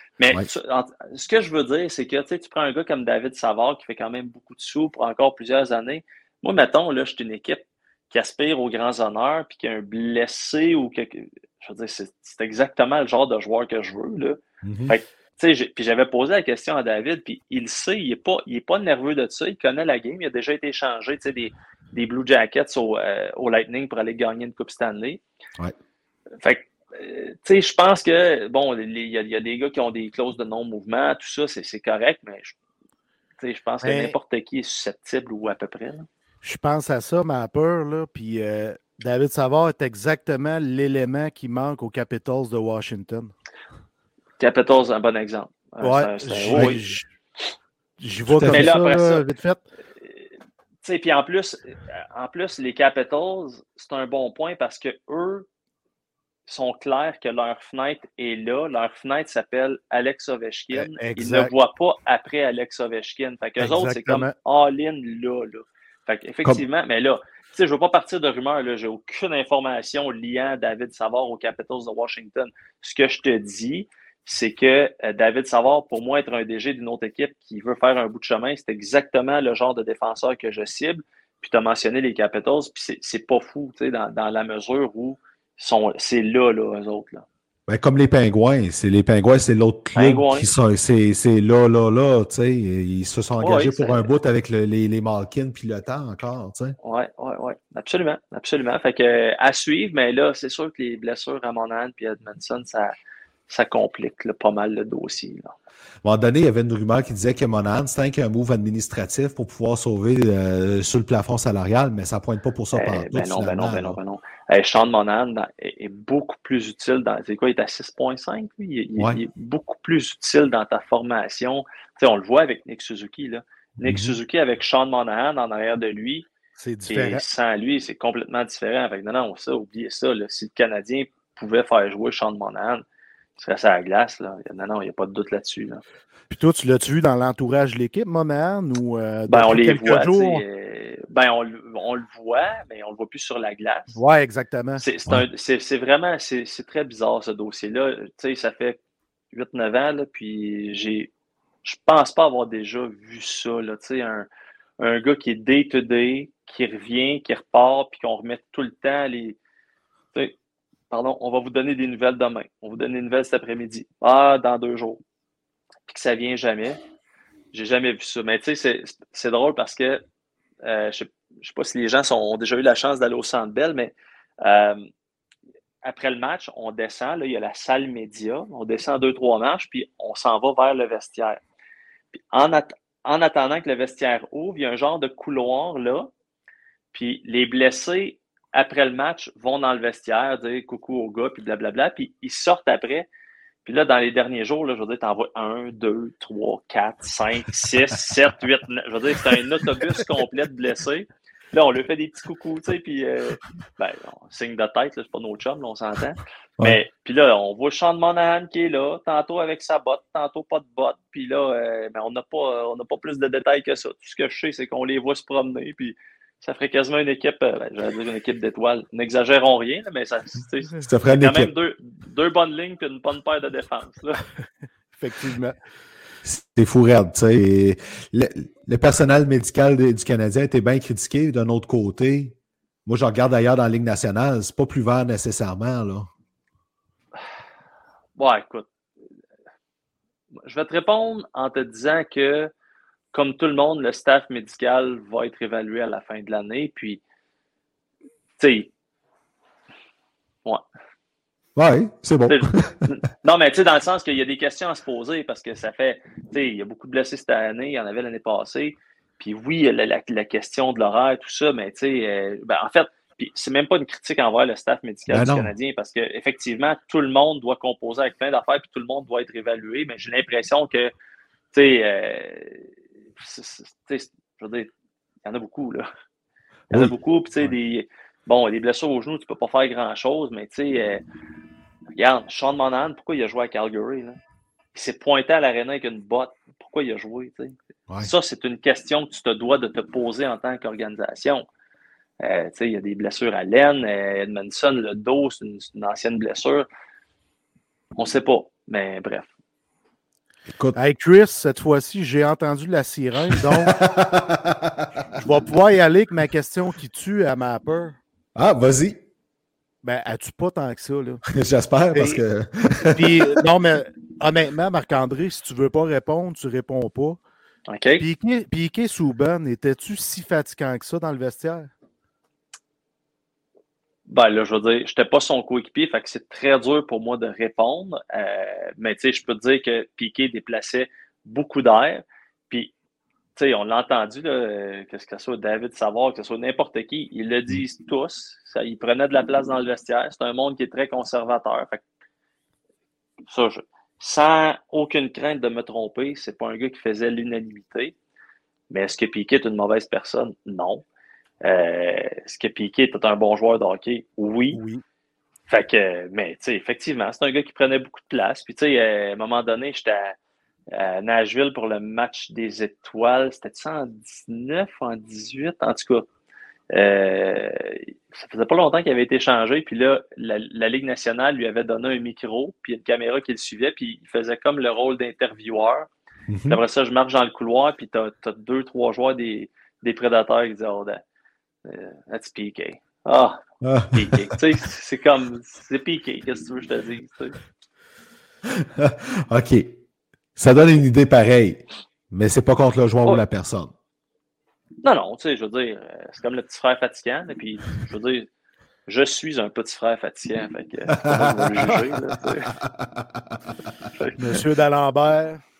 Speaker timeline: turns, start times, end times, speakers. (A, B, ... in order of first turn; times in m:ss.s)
0:00.2-0:25.2 A
0:14.6-0:15.0 B
0:26.4-0:32.6 A
0:33.4-0:36.1 A
0:33.8-0:34.2 C
0:36.4-0:43.3 C
0:44.4-0:46.8 A
0:45.8-0:47.1 C
0:48.0-0:49.6 C
0:48.3-0:48.7 B
0:48.4-0:49.2 A
0:50.8-0:55.4 A
0:56.5-1:27.2 A
1:00.7-1:01.5 C
1:03.6-1:04.3 C
1:27.7-1:36.8 B
1:30.0-1:30.5 A
1:33.4-1:34.0 A
1:36.8-1:43.0 A
1:43.5-1:45.5 A
1:46.0-1:54.0 B
1:52.7-2:06.3 A
2:03.8-2:04.2 B
2:06.6-2:07.2 C
2:06.9-2:12.8 A
2:13.4-2:15.8 A
2:16.3-2:20.4 C
2:19.3-2:24.0 A
2:24.0-2:24.8 C
2:24.8-2:28.8 A
2:29.3-2:31.1 A
2:31.6-2:34.3 A
2:34.8-2:39.4 A
2:40.9-2:45.0 A
2:45.9-2:46.8 A
2:47.5-2:50.0 A
2:50.6-2:54.8 A
2:55.8-3:01.4 A
3:02.3-3:06.1 A
3:06.9-3:13.1 A
3:13.6-3:44.2 A
3:40.8-3:41.5 B
3:45.0-3:45.6 C
3:46.2-3:52.4 B
3:52.9-3:56.1 B
3:58.2-3:58.7 A
4:00.4-4:02.5 A
4:03.1-4:07.0 A
4:08.4-4:08.7 A
4:11.6-4:12.8 B
4:12.3-4:30.9 A
4:25.1-4:25.5 B
4:31.5-4:34.7 A
4:35.2-4:35.9 A
4:36.7-4:37.6 B
4:36.7-4:41.0 A
4:41.9-4:44.2 A
4:44.7-4:51.5 A
4:52.2-4:56.7 A
4:58.0-4:59.3 A
5:00.7-5:03.8 C
5:03.7-5:05.0 B
5:05.1-5:08.0 C
5:08.4-5:09.0 B
5:09.8-5:11.2 C
5:11.3-5:13.4 B
5:11.9-5:12.2 C
5:12.9-5:17.2 C
5:17.7-5:18.1 A
5:18.0-5:21.7 C
5:24.1-5:32.7 A
5:33.4-5:41.8 A
5:43.3-5:48.0 A
5:48.7-5:50.8 A
5:51.4-5:54.6 A
5:54.5-5:54.8 C
5:55.5-6:00.2 A
6:00.7-6:06.1 A
6:06.7-6:15.9 A
6:16.3-6:16.6 B
6:16.5-6:21.0 A
6:21.6-6:23.4 A
6:23.6-6:24.2 B
6:23.9-6:27.4 A
6:28.5-6:29.8 B
6:30.4-6:33.7 B
6:34.8-6:38.3 A
6:38.9-6:42.6 A
6:40.9-6:43.4 B
6:44.2-6:45.4 C